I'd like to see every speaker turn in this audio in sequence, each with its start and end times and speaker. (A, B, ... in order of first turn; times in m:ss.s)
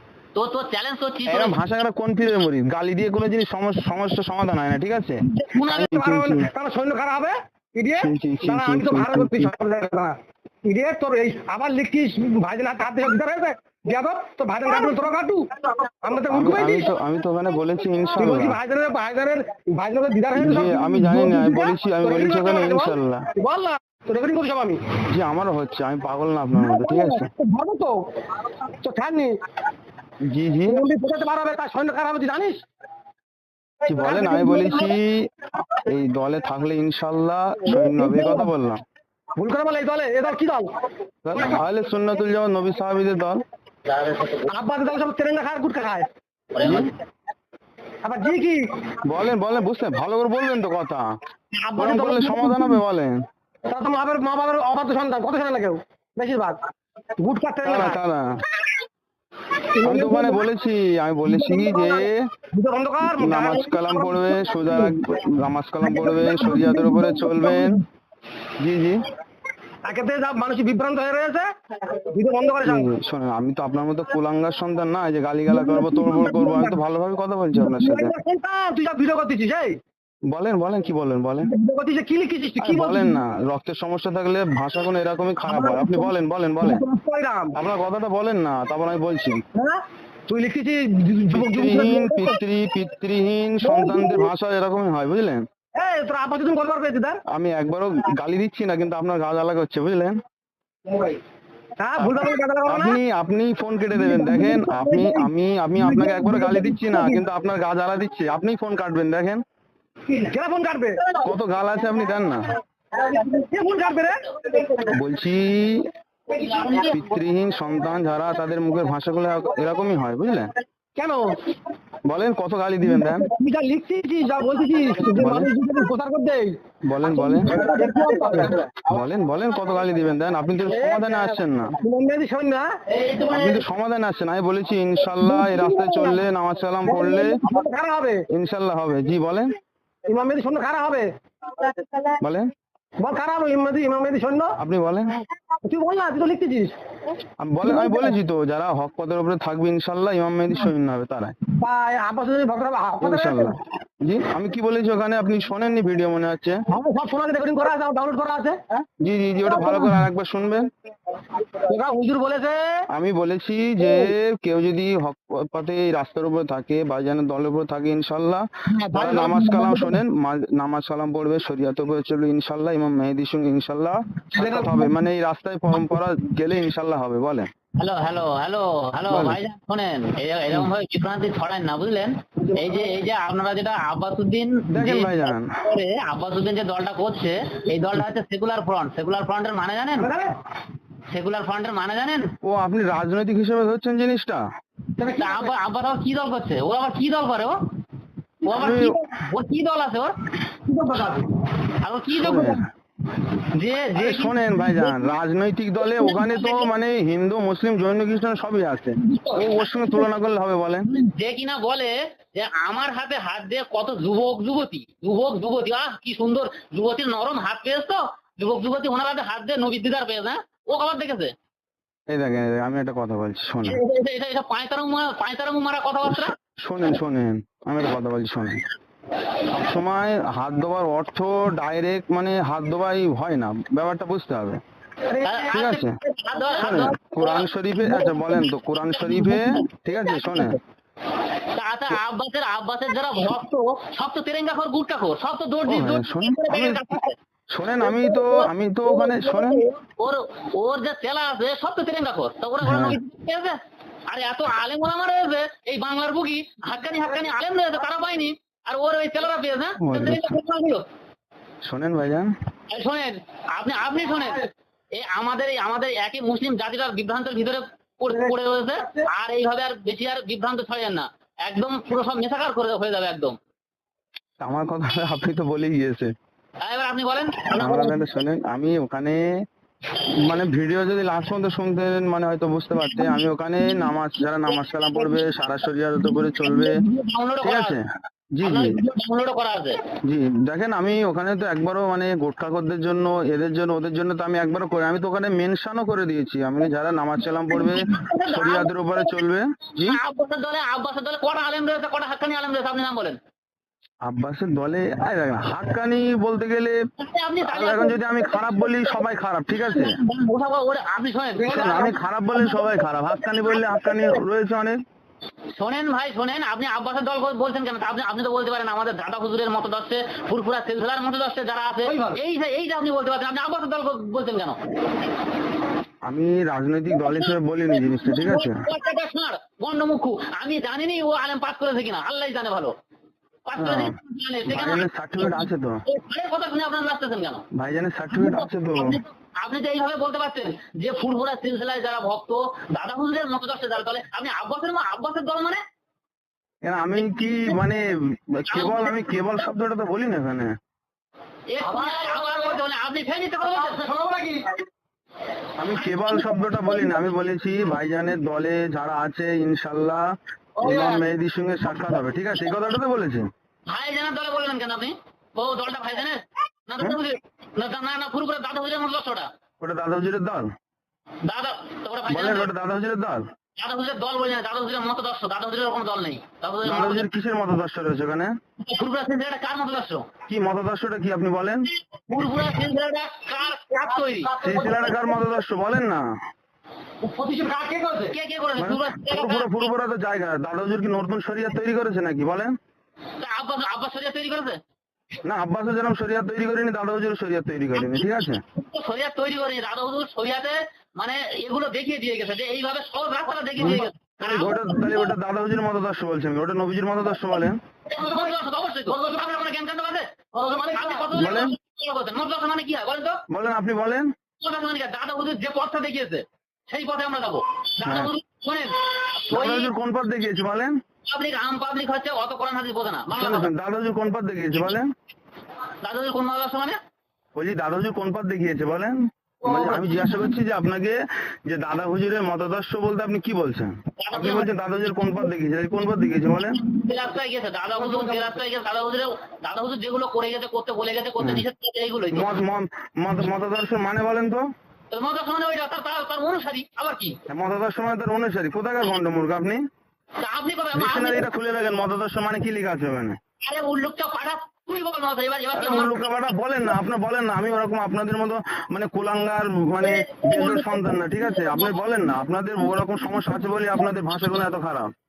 0:00.4-0:01.6 A
0:01.3-0:06.5 B
0:05.3-0:05.7 A
0:05.6-0:16.9 C
0:08.0-0:09.5 B
0:16.3-0:18.6 B
0:18.1-0:24.8 C
0:20.3-0:23.3 B
0:25.1-0:27.3 B
0:26.6-0:28.0 C
0:28.8-0:29.3 C
0:30.2-0:30.8 B
0:30.7-0:32.6 C
0:33.9-0:34.9 C
0:33.9-0:38.8 B
0:37.7-0:38.5 C
0:39.4-0:40.7 C
0:41.2-0:43.4 B
0:43.9-0:44.5 A
0:44.5-0:46.1 C
0:46.6-0:46.8 A
0:46.6-0:46.9 B
0:48.0-0:49.0 C
0:49.0-0:51.0 B
0:51.6-0:52.8 C
0:51.8-0:53.2 B
0:53.7-0:56.6 C
0:57.2-0:58.0 C
0:57.6-0:58.3 B
0:59.7-1:00.5 C
0:59.8-1:02.3 B
1:01.2-1:05.0 C
1:03.1-1:07.8 B
1:05.8-1:07.8 C
1:08.6-1:09.0 B
1:09.8-1:12.9 C
1:12.6-1:18.1 B
1:15.5-1:16.8 C
1:17.5-1:19.8 C
1:20.3-1:21.5 B
1:21.4-1:23.2 C
1:22.6-1:26.8 B
1:25.4-1:27.6 C
1:27.6-1:29.4 B
1:29.5-1:32.4 C
1:31.3-1:35.4 B
1:33.6-1:34.3 C
1:35.8-1:37.2 C
1:37.3-1:40.2 B
1:41.8-1:43.0 C
1:42.0-1:49.4 B
1:43.9-1:47.2 C
1:50.1-1:51.2 C
1:51.2-1:52.5 B
1:52.9-1:54.9 C
1:54.9-1:55.9 B
1:56.3-1:57.0 A
1:56.8-2:00.5 B
2:01.0-2:01.4 C
2:02.1-2:03.3 B
2:02.8-2:08.6 C
2:05.2-2:05.5 B
2:06.8-2:07.6 B
2:08.9-2:11.8 B
2:10.6-2:12.7 C
2:12.9-2:13.6 A
2:13.3-2:17.4 B
2:15.2-2:16.2 C
2:16.8-2:18.2 C
2:18.3-2:19.5 B
2:20.1-2:22.1 C
2:22.2-2:22.5 B
2:23.0-2:24.6 C
2:24.6-2:25.2 B
2:25.6-2:26.7 C
2:27.4-2:31.4 B
2:27.6-2:28.1 C
2:31.6-2:33.6 C
2:33.0-2:36.6 B
2:36.7-2:38.6 C
2:39.0-2:40.7 B
2:39.6-2:39.9 C
2:41.6-2:42.8 C
2:42.9-2:57.5 B
2:43.8-2:44.1 C
2:48.8-2:49.9 C
2:54.3-2:54.9 C
2:57.8-3:10.1 A
2:59.1-2:59.4 B
3:04.7-3:05.5 B
3:10.0-3:10.3 C
3:11.1-3:12.3 A
3:12.4-3:14.4 B
3:15.0-3:15.6 C
3:15.2-3:17.6 A
3:18.4-3:20.1 A
3:18.5-3:19.0 B
3:20.7-3:21.3 C
3:21.8-3:22.6 A
3:22.1-3:22.6 B
3:23.6-3:25.2 A
3:24.0-3:30.9 B
3:26.0-3:26.7 A
3:29.0-3:30.0 A
3:30.9-3:41.3 A
3:42.1-3:43.8 B
3:43.7-3:46.3 A
3:46.6-3:48.6 B
3:49.5-3:54.6 B
3:55.1-3:55.6 C
3:55.2-3:57.0 A
3:55.5-3:56.0 B
3:56.5-3:56.9 C
3:56.6-4:00.6 B
3:58.9-4:00.5 A
4:01.5-4:07.2 A
4:05.7-4:06.9 B
4:07.5-4:09.6 B
4:09.0-4:13.6 A
4:12.6-4:13.0 B
4:14.1-4:20.8 A
4:19.8-4:20.3 B
4:21.6-4:22.3 B
4:22.7-4:33.4 A
4:34.4-4:36.1 B
4:36.6-4:38.0 A
4:37.5-4:39.3 B
4:40.2-4:46.8 B
4:42.8-4:43.9 A
4:44.5-4:45.3 A
4:46.0-4:47.8 A
4:47.4-4:47.8 B
4:48.4-4:48.7 B
4:48.4-4:49.8 A
4:50.0-5:00.0 B
4:57.5-4:59.2 A
4:59.8-5:03.2 A
5:04.0-5:06.8 B
5:07.0-5:11.9 A
5:07.5-5:10.0 B
5:11.4-5:12.0 C
5:11.5-5:14.8 B
5:12.4-5:14.1 A
5:15.6-5:24.6 A
5:21.9-5:22.2 C
5:26.1-5:28.6 B
5:26.9-5:32.7 A
5:33.5-5:37.4 A
5:33.6-5:33.9 B
5:34.5-5:35.8 B
5:37.5-5:39.0 B
5:38.1-5:45.6 A
5:46.6-5:50.5 B
5:47.0-5:47.6 A
5:48.5-5:49.2 A
5:51.5-5:53.9 A
5:51.6-5:52.6 C
5:53.6-5:54.5 C
5:55.6-6:00.0 B
5:55.7-5:57.1 A
6:00.6-6:01.1 A
6:00.6-6:03.2 B
6:03.7-6:09.3 A
6:09.6-6:10.5 B
6:11.2-6:12.5 A
6:12.1-6:13.2 B
6:13.6-6:17.0 A
6:16.6-6:18.3 B
6:18.6-6:20.1 A
6:20.3-6:21.7 B
6:22.1-6:24.3 A
6:23.7-6:25.3 C
6:24.4-6:26.0 B
6:27.0-6:28.2 C
6:28.1-6:29.6 A
6:28.6-6:32.5 B
6:33.2-6:34.6 A
6:35.2-6:38.4 B
6:37.8-6:45.1 A
6:43.6-6:47.6 B
6:47.9-6:50.1 A
6:48.0-6:49.2 C
6:50.3-6:51.1 C
6:50.7-6:53.2 A
6:51.1-6:51.5 B
6:53.3-6:54.1 B
6:54.4-6:59.7 A
6:57.8-6:58.1 B
6:59.3-7:00.8 B
7:01.1-7:03.5 A
7:03.1-7:04.9 B
7:05.8-7:06.8 A
7:07.3-7:16.6 B
7:09.4-7:10.1 C
7:14.0-7:14.5 A
7:16.2-7:22.4 A
7:17.8-7:18.3 C
7:21.2-7:21.4 B
7:22.1-7:24.4 B
7:24.9-7:27.2 A
7:27.3-7:29.6 B
7:30.2-7:31.2 A
7:30.7-7:33.2 B
7:33.4-7:36.1 A
7:35.5-7:44.9 B
7:39.8-7:41.8 A
7:43.0-7:43.3 A